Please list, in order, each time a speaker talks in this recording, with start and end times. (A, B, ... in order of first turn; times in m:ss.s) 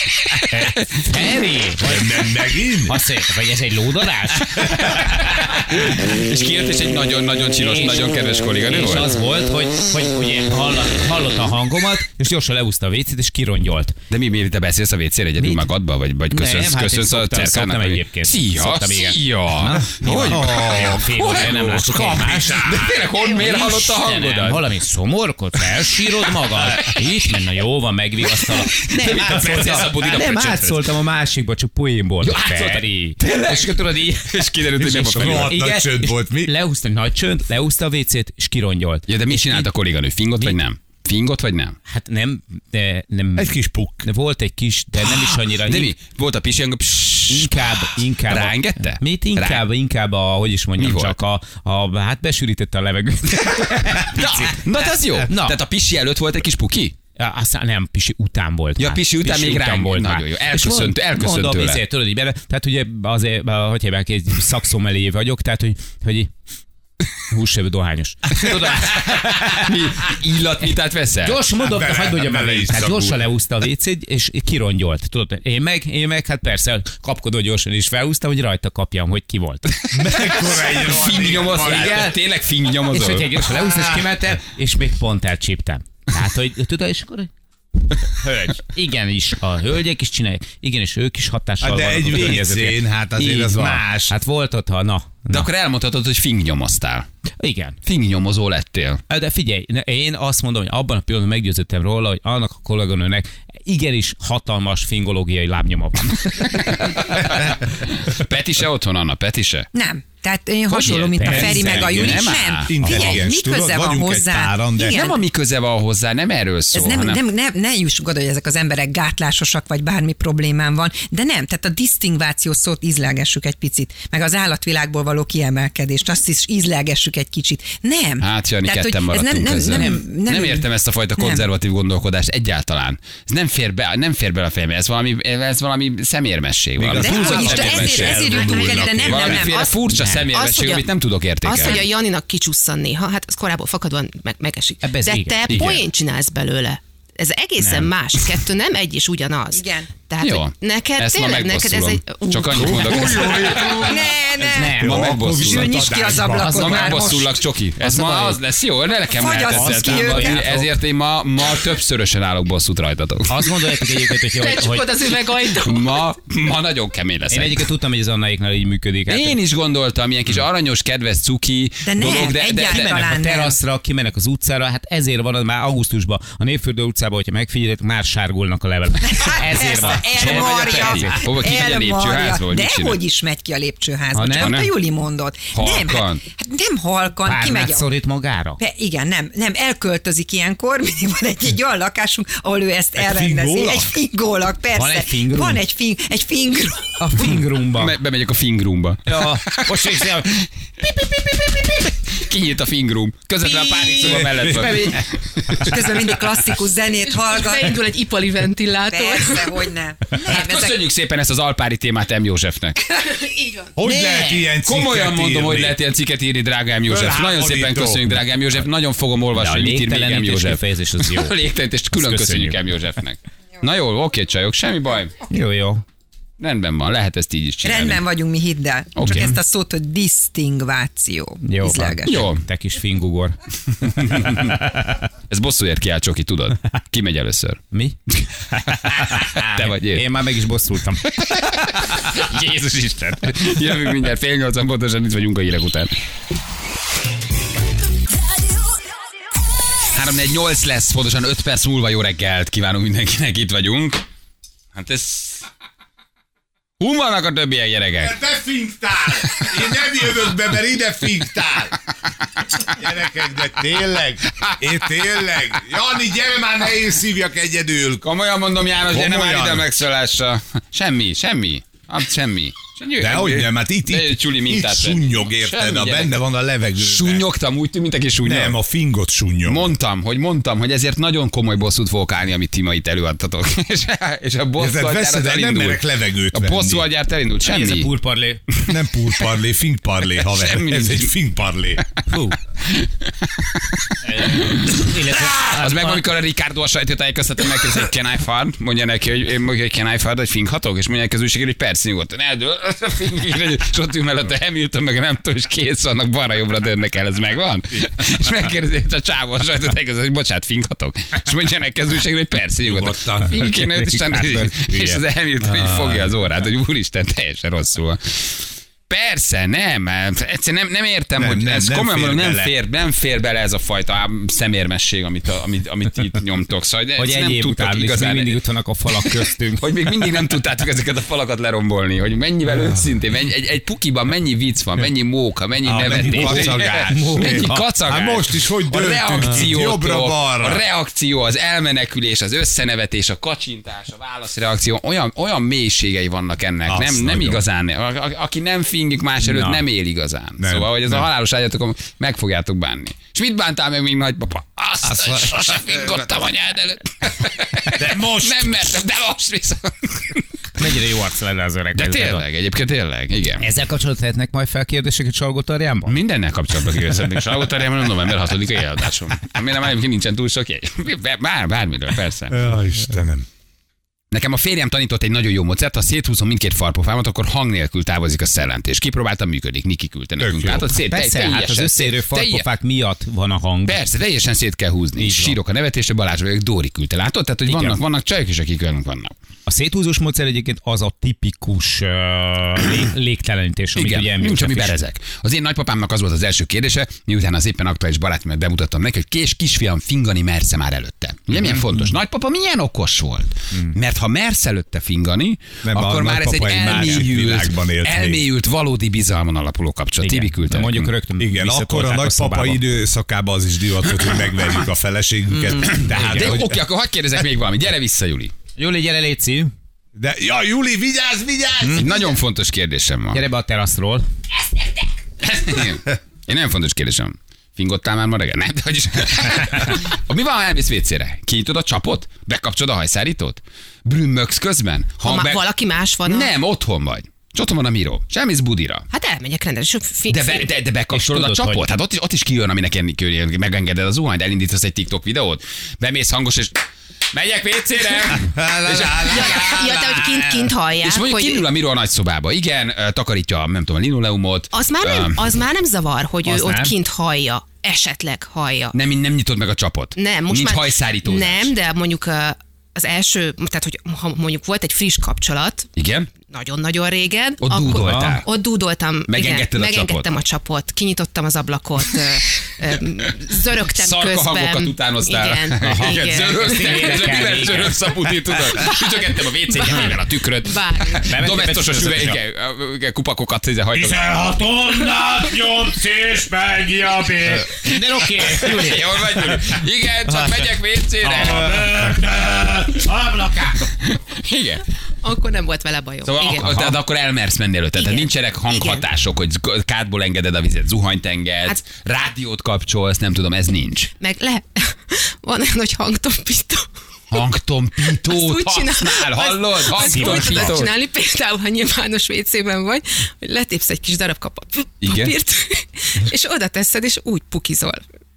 0:00.5-0:02.2 A
0:01.8-0:03.0 B
0:02.8-0:05.6 A
0:04.5-0:09.1 C
0:07.6-0:08.1 A
0:08.6-0:14.0 A
0:14.1-0:24.6 C
0:15.4-0:15.6 A
0:16.3-0:22.7 A
0:20.0-0:23.1 B
0:23.3-0:39.7 A
0:28.7-0:30.9 C
0:32.2-0:35.6 C
0:34.8-0:36.5 B
0:39.1-0:41.8 C
0:41.9-0:45.9 A
0:43.4-0:44.1 B
0:45.0-0:49.6 C
0:47.3-0:54.6 A
0:50.8-0:51.1 C
0:53.9-0:56.9 C
0:55.2-0:55.6 A
0:57.2-1:06.3 A
0:58.8-1:01.8 C
1:07.3-1:09.8 A
1:08.7-1:11.4 C
1:11.2-1:19.7 A
1:11.6-1:13.2 B
1:19.9-1:22.1 B
1:19.9-1:23.4 C
1:21.6-1:22.2 A
1:22.9-1:27.3 A
1:23.6-1:24.0 B
1:28.0-1:35.4 A
1:31.6-1:34.1 B
1:35.3-1:37.1 C
1:37.4-1:37.8 A
1:37.8-1:39.0 C
1:39.1-1:47.2 A
1:46.5-1:49.7 C
1:49.7-1:55.2 D
1:50.7-1:52.3 A
1:51.2-1:53.2 C
1:51.2-1:51.9 B
1:52.7-1:55.1 B
1:54.9-1:57.2 C
1:56.7-2:10.6 D
2:08.2-2:21.8 C
2:09.8-2:10.0 A
2:11.2-2:11.4 D
2:16.8-2:19.5 B
2:16.9-2:19.8 D
2:19.9-2:20.2 A
2:20.3-2:20.8 E
2:21.4-2:33.4 E
2:24.8-2:25.7 A
2:25.5-2:25.8 C
2:27.6-2:27.9 A
2:29.5-2:29.9 D
2:30.2-2:34.0 C
2:32.5-2:37.1 B
2:33.8-2:37.4 D
2:34.5-2:35.1 A
2:34.8-2:43.3 C
2:36.5-2:37.2 A
2:37.8-2:38.4 A
2:39.1-2:40.4 D
2:39.5-2:40.7 A
2:43.3-2:44.9 A
2:44.3-2:46.0 E
2:45.5-2:47.6 C
2:47.3-2:49.4 A
2:49.1-2:53.1 C
2:51.8-2:53.6 D
2:52.6-3:01.1 A
2:59.0-3:07.9 D
3:00.0-3:03.0 C
3:04.1-3:04.6 A
3:04.4-3:04.7 C
3:05.5-3:06.2 C
3:07.2-3:08.6 A
3:08.6-3:17.3 D
3:13.0-3:13.9 B
3:14.7-3:15.6 A
3:17.0-3:18.0 A
3:17.7-3:19.6 C
3:19.0-3:20.4 A
3:22.1-3:25.8 C
3:23.9-3:25.0 B
3:24.6-3:25.0 A
3:25.6-3:27.8 D
3:27.1-3:29.7 E
3:28.9-3:30.8 D
3:30.2-3:32.8 C
3:32.9-3:33.7 E
3:33.8-3:35.8 B
3:33.8-3:45.1 C
3:36.9-3:38.1 B
3:39.3-3:41.4 A
3:41.9-3:42.6 A
3:45.3-3:45.8 A
3:46.4-3:48.0 C
3:47.6-3:52.2 D
3:49.0-3:49.4 C
3:49.1-3:49.3 A
3:51.4-3:53.4 A
3:52.0-3:52.4 C
3:53.8-3:54.6 C
3:54.1-3:55.0 A
3:55.3-3:57.6 C
3:58.5-4:01.9 A
3:58.7-4:00.0 C
4:01.2-4:05.9 C
4:09.9-4:14.0 C
4:14.7-4:15.4 C
4:16.8-4:18.2 C
4:18.0-4:21.8 B
4:22.5-4:28.0 B
4:28.0-4:36.1 C
4:28.8-4:29.7 B
4:33.0-4:37.2 B
4:36.8-4:38.6 C
4:38.2-4:39.7 B
4:39.4-4:47.9 C
4:44.6-4:46.9 B
4:47.4-4:48.4 A
4:48.6-4:51.8 B
4:50.2-4:51.1 C
4:52.1-4:52.4 A
4:52.6-5:28.4 C
4:54.0-4:56.0 A
5:12.6-5:13.4 B
5:13.4-5:15.0 A
5:15.4-5:16.0 B
5:21.2-5:22.5 B
5:27.0-5:29.6 A
5:29.0-6:00.2 C
5:35.6-5:40.6 B
5:35.9-5:37.5 A
5:46.7-5:47.4 B
5:49.3-5:49.6 B
5:50.4-5:51.0 B
5:54.8-5:55.7 B
5:57.7-5:58.6 B
6:00.6-6:02.2 A
6:01.7-6:03.4 C
6:03.4-6:06.0 A
6:05.9-6:12.4 C
6:12.3-6:13.2 B
6:14.1-6:22.4 C
6:20.2-6:20.7 B
6:20.9-6:23.8 A
6:23.6-6:29.1 C
6:25.0-6:25.4 A
6:27.5-6:27.8 A
6:29.4-6:34.7 A
6:33.8-6:50.9 C
6:45.6-6:48.2 B
6:50.0-6:52.7 A
6:51.2-6:56.6 B
6:55.3-6:56.2 A
6:55.8-6:58.3 C
6:58.6-6:59.5 A
6:59.9-7:02.0 B
7:01.7-7:03.2 C
7:03.1-7:04.0 A
7:05.2-7:15.4 C
7:15.0-7:16.3 E
7:16.0-7:18.9 C
7:18.9-7:20.5 E
7:20.1-7:26.6 C
7:20.9-7:21.6 A
7:27.1-7:30.3 C
7:28.2-7:29.3 B
7:29.0-7:31.4 E
7:30.8-7:35.2 C
7:34.5-7:38.7 E
7:36.2-7:36.7 A
7:38.7-7:41.5 C
7:40.0-7:45.7 E
7:45.8-7:46.1 C
7:46.2-7:57.3 E
7:47.4-7:48.2 C
7:47.7-7:48.2 A
7:49.1-7:50.1 C
7:53.7-8:04.1 C
7:55.6-7:57.8 A
7:58.6-8:01.1 E
8:01.0-8:02.2 A
8:03.8-8:09.0 A
8:07.7-8:11.7 C
8:11.0-8:13.6 A
8:13.8-8:14.6 C
8:15.0-8:16.8 E
8:16.0-8:23.9 C
8:17.8-8:18.8 E
8:24.0-8:26.7 E
8:27.1-8:30.7 C
8:27.8-8:37.8 E
8:29.8-8:30.6 A
8:34.8-8:35.1 C